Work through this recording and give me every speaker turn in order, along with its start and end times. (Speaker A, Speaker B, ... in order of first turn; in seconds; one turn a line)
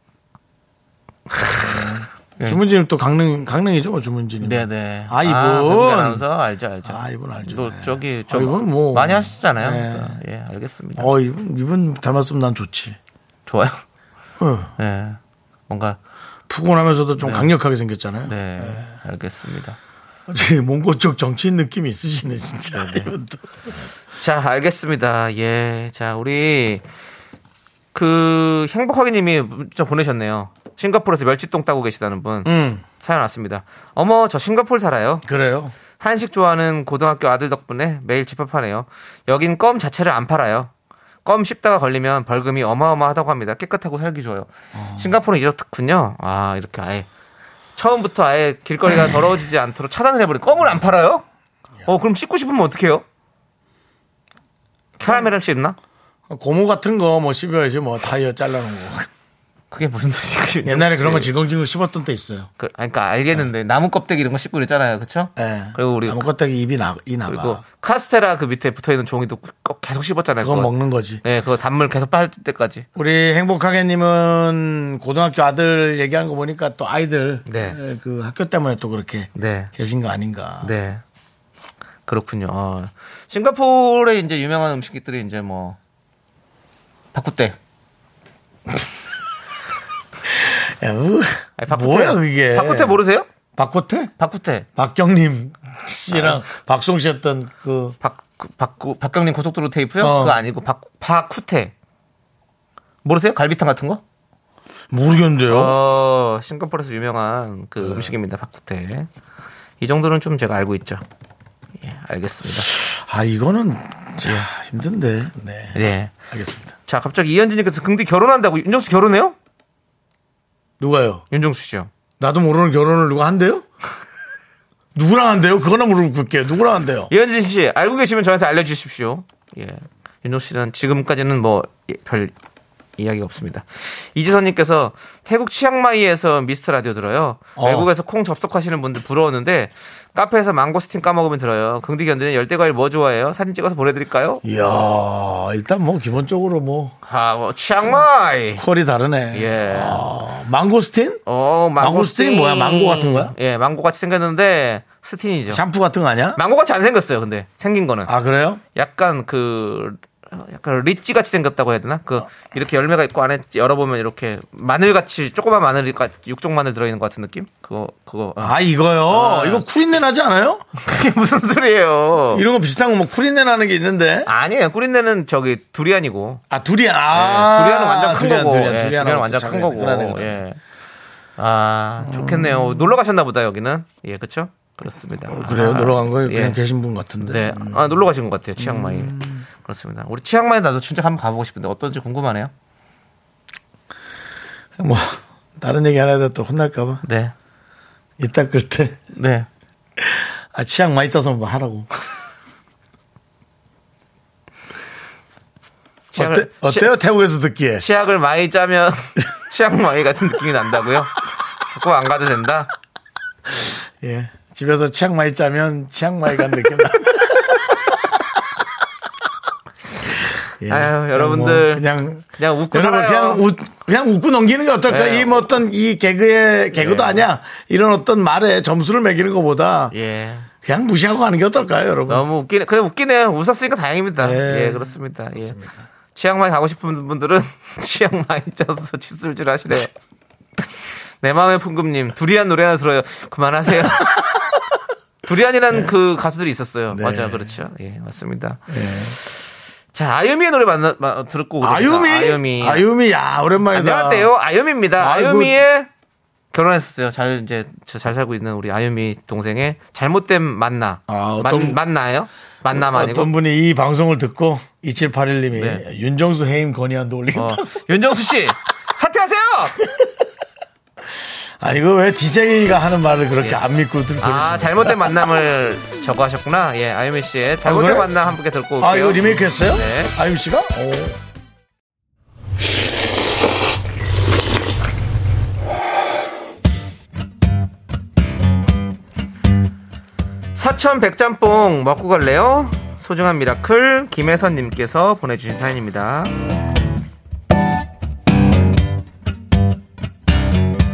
Speaker A: 1.6-6.2
Speaker B: 4.4-11.1
Speaker A: 6.8-10.2
Speaker A: 10.9-13.0
Speaker B: 13.4-13.8
Speaker A: 14.4-14.7
Speaker B: 14.8-16.0
Speaker A: 16.5-18.9
Speaker B: 17.2-17.5
Speaker B: 18.3-19.8
Speaker A: 20.3-23.8
Speaker B: 22.7-23.1
Speaker B: 24.2-26.8
Speaker B: 27.9-35.2
Speaker A: 32.4-32.8
Speaker A: 35.2-35.7
Speaker B: 36.0-40.7
Speaker B: 41.2-47.1
Speaker A: 44.7-45.1
Speaker B: 47.8-51.2
Speaker B: 51.9-53.0
Speaker B: 55.0-55.8
Speaker A: 56.3-59.1
Speaker B: 59.7-61.3
Speaker A: 60.6-62.5
Speaker B: 62.6-66.2
Speaker A: 65.4-67.6
Speaker B: 67.3-70.7
Speaker A: 70.4-71.2
Speaker B: 71.2-72.8
Speaker A: 73.0-80.7
Speaker B: 77.5-77.8
Speaker B: 79.3-79.7
Speaker B: 80.6-81.0
Speaker B: 82.1-85.8
Speaker B: 87.1-87.5
Speaker A: 90.3-93.0
Speaker B: 91.6-93.3
Speaker A: 93.5-94.1
Speaker B: 94.2-94.7
Speaker A: 94.8-98.0
Speaker B: 96.1-96.4
Speaker B: 98.0-101.7
Speaker A: 100.0-100.4
Speaker B: 103.0-104.0
Speaker A: 104.9-105.8
Speaker B: 105.5-109.1
Speaker A: 107.8-108.1
Speaker B: 109.8-111.0
Speaker B: 111.8-112.7
Speaker A: 112.7-115.8
Speaker B: 115.7-116.1
Speaker A: 116.3-116.7
Speaker B: 116.9-119.3
Speaker A: 120.8-121.2
Speaker B: 121.3-121.9
Speaker A: 122.2-123.7
Speaker A: 124.9-127.1
Speaker B: 127.1-132.3
Speaker B: 133.0-144.4
Speaker A: 137.6-137.9
Speaker A: 144.4-146.9
Speaker B: 147.0-148.6
Speaker A: 148.5-151.2
Speaker B: 149.3-150.0
Speaker B: 151.2-155.6
Speaker A: 151.8-153.3
Speaker A: 155.5-156.4
Speaker B: 156.3-158.1
Speaker A: 158.1-158.6
Speaker B: 158.7-168.6
Speaker A: 168.4-170.6
Speaker B: 169.1-169.6
Speaker B: 170.8-172.4
Speaker A: 172.3-174.3
Speaker B: 174.2-176.4
Speaker A: 176.5-180.4
Speaker B: 177.1-180.6
Speaker B: 181.4-186.6
Speaker A: 182.0-182.9
Speaker A: 185.2-188.0
Speaker B: 187.2-192.5
Speaker A: 188.6-189.4
Speaker A: 194.8-197.0
Speaker B: 197.0-197.3
Speaker A: 198.2-199.0
Speaker B: 199.1-199.5
Speaker A: 200.0-201.9
Speaker B: 206.1-206.9
Speaker A: 206.1-207.8
Speaker B: 207.8-211.1
Speaker B: 211.7-212.7
Speaker A: 213.6-218.0
Speaker A: 220.6-229.9
Speaker B: 220.7-223.4
Speaker B: 224.9-225.6
Speaker B: 226.7-227.2
Speaker B: 229.9-230.5
Speaker A: 230.6-232.2
Speaker B: 232.1-235.6
Speaker A: 234.2-235.8
Speaker B: 236.1-239.9
Speaker B: 241.2-244.3
Speaker B: 245.2-248.6
Speaker A: 246.9-247.5
Speaker A: 248.7-249.2
Speaker B: 249.9-252.8
Speaker A: 251.6-254.3
Speaker B: 253.7-255.9
Speaker A: 255.0-255.6
Speaker B: 256.5-263.3
Speaker A: 261.1-261.8
Speaker A: 262.7-267.8
Speaker B: 265.5-265.8
Speaker B: 267.3-269.8
Speaker A: 271.1-275.2
Speaker B: 274.2-280.1
Speaker A: 277.6-278.1
Speaker A: 278.8-281.2
Speaker B: 290.5-296.3